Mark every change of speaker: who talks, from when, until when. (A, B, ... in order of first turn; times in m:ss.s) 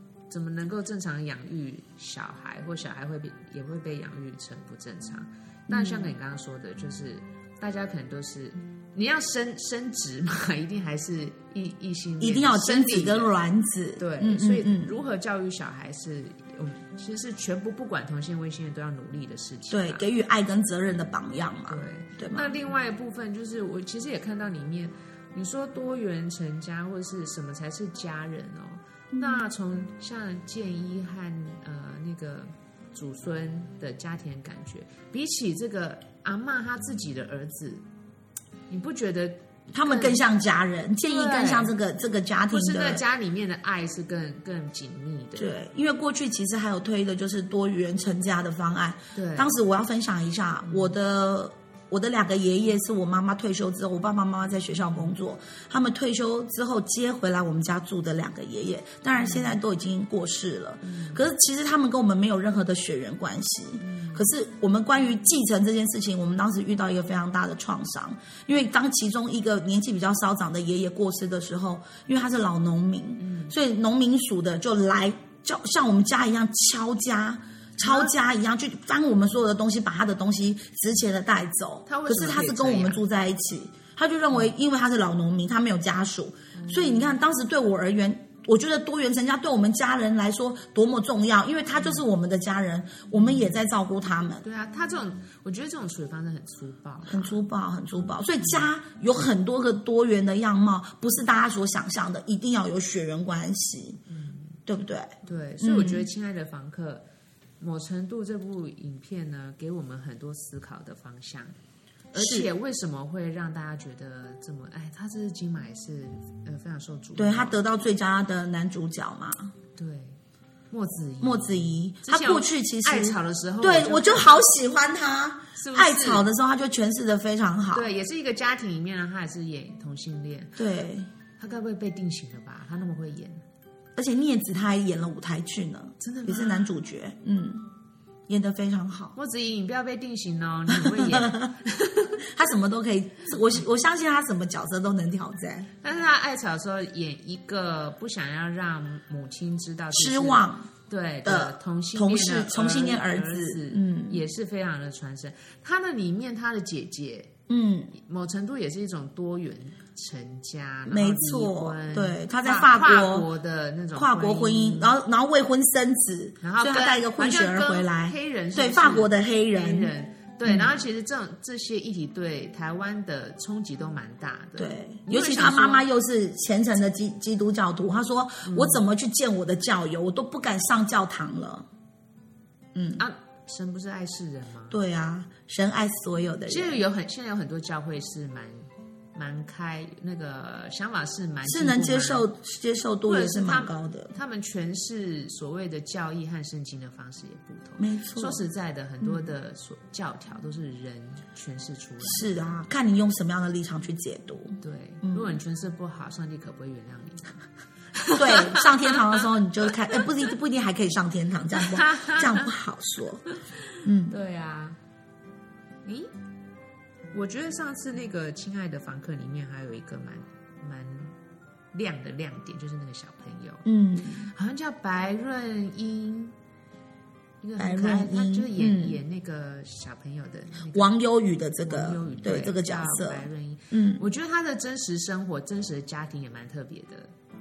0:00.3-0:13.3 A
0:05.7-0:06.2 B
0:12.2-0:15.0 B
0:14.0-0:20.0 A
0:19.7-0:22.6 B
0:21.7-0:37.8 A
0:29.1-0:29.5 B
0:38.7-0:40.2 A
0:39.7-0:43.0 B
0:41.0-0:41.8 A
0:42.5-0:45.6 A
0:45.4-1:34.4 B
0:49.1-0:49.5 A
0:50.6-0:51.0 A
0:59.2-0:59.6 A
1:00.8-1:01.2 A
1:03.8-1:04.2 A
1:13.2-1:13.6 A
1:17.8-1:18.1 A
1:21.9-1:23.0 A
1:26.5-1:27.1 A
1:31.8-1:32.0 A
1:33.1-1:33.6 A
1:34.4-1:37.4 A
1:37.1-1:44.0 B
1:38.4-1:38.7 A
1:44.1-1:44.6 A
1:44.7-1:46.1 B
1:45.2-1:47.1 A
1:47.6-1:51.6 A
1:52.1-1:57.6 A
1:52.1-1:52.5 B
1:57.2-1:59.5 B
1:59.8-2:00.2 A
2:00.7-2:04.5 A
2:01.2-2:07.9 B
2:05.6-2:06.3 A
2:07.7-2:10.6 A
2:10.6-2:11.1 B
2:11.4-2:13.4 A
2:14.0-2:17.7 B
2:16.0-2:16.8 A
2:18.3-2:19.2 B
2:19.2-2:22.2 A
2:20.7-2:21.5 B
2:22.3-2:25.7 B
2:25.8-2:37.3 A
2:29.9-2:30.7 B
2:31.2-2:34.2 B
2:37.5-2:38.0 B
2:37.9-2:45.0 A
2:40.9-2:43.3 B
2:43.9-2:49.9 B
2:46.4-2:55.9 A
2:50.4-2:50.8 B
2:54.6-3:01.7 B
2:58.4-2:58.8 A
3:02.8-3:03.0 B
3:03.0-3:04.8 A
3:04.7-3:06.8 B
3:06.5-3:12.3 A
3:11.4-3:14.2 B
3:13.0-3:22.3 A
3:17.8-3:18.5 B
3:19.0-3:19.3 B
3:22.0-3:25.4 B
3:24.6-3:27.4 A
3:27.9-3:29.2 A
3:28.2-3:33.3 B
3:31.6-3:32.5 A
3:33.3-3:34.8 A
3:33.8-3:34.2 B
3:35.8-3:36.2 A
3:37.1-3:41.2 A
3:41.7-3:43.6 A
3:43.6-3:44.3 B
3:44.3-3:46.4 A
3:47.4-3:50.9 A
3:47.6-3:49.0 B
3:50.7-3:54.0 B
3:51.6-3:57.1 A